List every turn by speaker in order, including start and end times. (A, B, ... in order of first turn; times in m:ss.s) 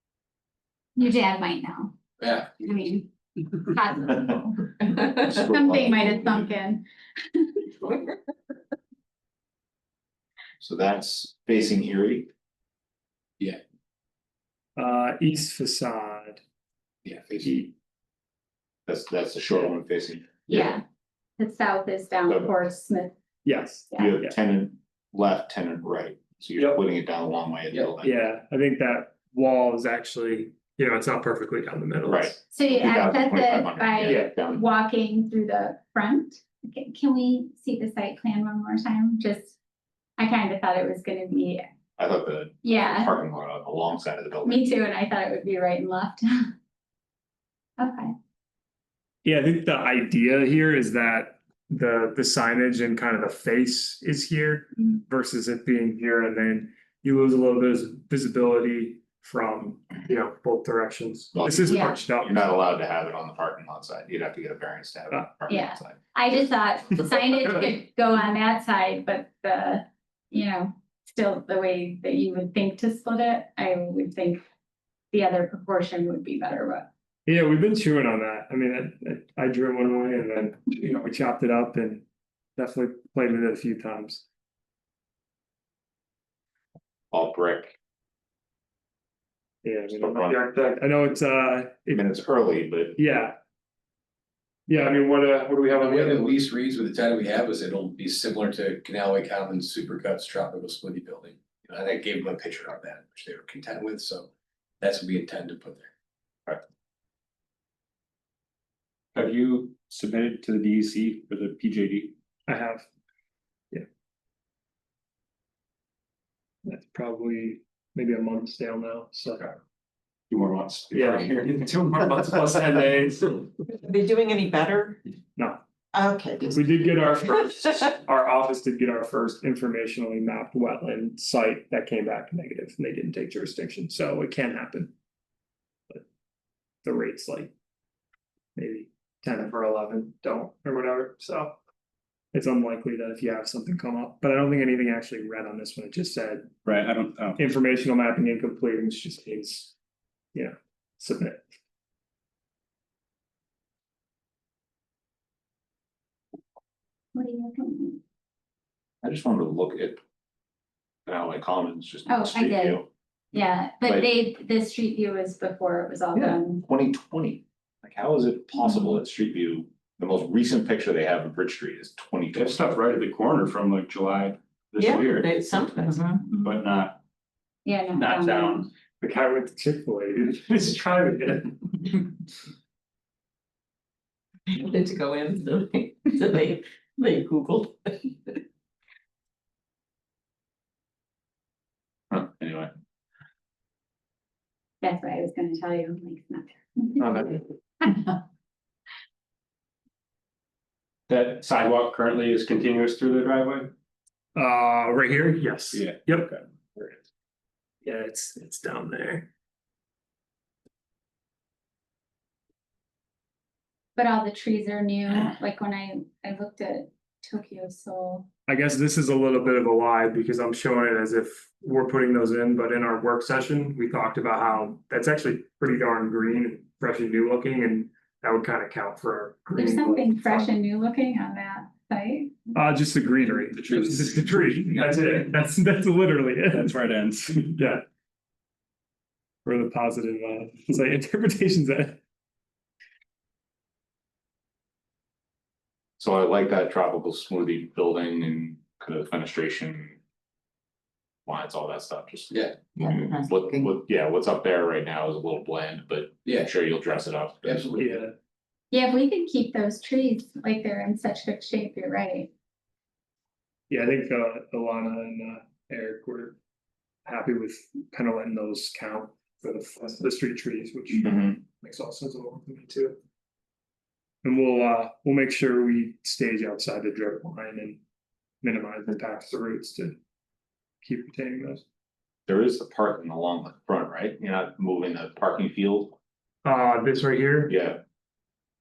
0:01.0-0:01.9 A
0:02.2-0:02.9 B
0:02.6-0:07.6 A
0:05.2-0:06.4 C
0:07.6-0:08.3 D
0:10.6-0:12.3 C
0:14.8-0:16.4 E
0:17.0-0:17.4 B
0:17.4-0:17.7 E
0:18.9-0:20.7 C
0:20.5-0:20.8 A
0:21.4-0:23.1 A
0:22.2-0:22.5 C
0:23.4-0:24.3 E
0:24.0-0:28.1 C
0:26.6-0:26.8 E
0:28.0-0:32.4 E
0:32.1-0:34.6 C
0:32.5-0:39.5 A
0:34.0-0:34.3 E
0:40.2-0:41.6 A
0:42.0-0:44.7 C
0:42.6-0:43.2 A
0:44.4-0:46.5 A
0:47.8-0:48.1 A
0:49.2-1:02.5 E
1:01.3-1:06.0 C
1:01.7-1:02.0 A
1:05.5-1:14.4 A
1:15.1-1:16.9 A
1:17.2-1:22.0 E
1:22.6-1:24.2 E
1:27.1-1:27.8 C
1:29.6-1:32.0 E
1:29.9-1:30.4 C
1:31.9-1:33.0 C
1:33.0-1:33.4 E
1:34.7-1:36.4 E
1:35.7-1:44.3 B
1:44.8-1:45.9 B
1:49.1-1:52.1 F
1:52.5-1:52.8 E
1:56.6-1:59.5 E
2:00.3-2:02.1 F
2:00.9-2:03.5 E
2:06.4-2:14.9 E
2:16.8-2:17.5 E
2:18.6-2:21.5 E
2:22.3-2:26.5 E
2:26.6-2:27.4 F
2:27.4-2:29.7 E
2:30.3-2:31.4 E
2:37.1-2:38.0 A
2:39.0-2:40.0 C
2:41.0-2:42.8 C
2:42.0-2:46.6 A
2:43.8-2:44.1 C
2:46.6-2:52.6 C
2:48.7-2:49.0 A
2:52.3-2:57.0 F
2:54.8-2:56.3 D
2:57.6-2:58.7 A
2:57.9-2:58.7 F
2:59.0-3:02.1 E
3:04.5-3:08.4 D
3:12.1-3:12.7 C
3:14.8-3:18.2 A
3:17.0-3:17.4 E
3:21.1-3:23.7 F
3:24.3-3:26.3 E
3:25.7-3:26.4 F
3:27.8-3:29.3 E
3:34.0-3:38.3 A
3:38.5-3:50.5 E
3:49.5-3:52.4 A
3:52.5-3:56.7 E
3:53.6-3:54.2 F
3:56.5-3:57.6 F
3:57.5-3:57.8 E
3:59.4-4:02.0 E
4:06.0-4:10.0 C
4:11.2-4:17.7 C
4:12.3-4:12.7 B
4:16.2-4:16.5 B
4:17.4-4:18.0 B
4:17.8-4:18.1 E
4:18.7-4:22.3 A
4:23.7-4:26.4 E
4:27.0-4:33.0 E
4:31.0-4:31.3 C
4:34.2-4:37.8 E
4:38.4-4:40.0 E
4:40.8-4:41.6 E
4:42.3-4:46.0 C
4:46.4-4:47.5 E
4:47.5-4:47.8 C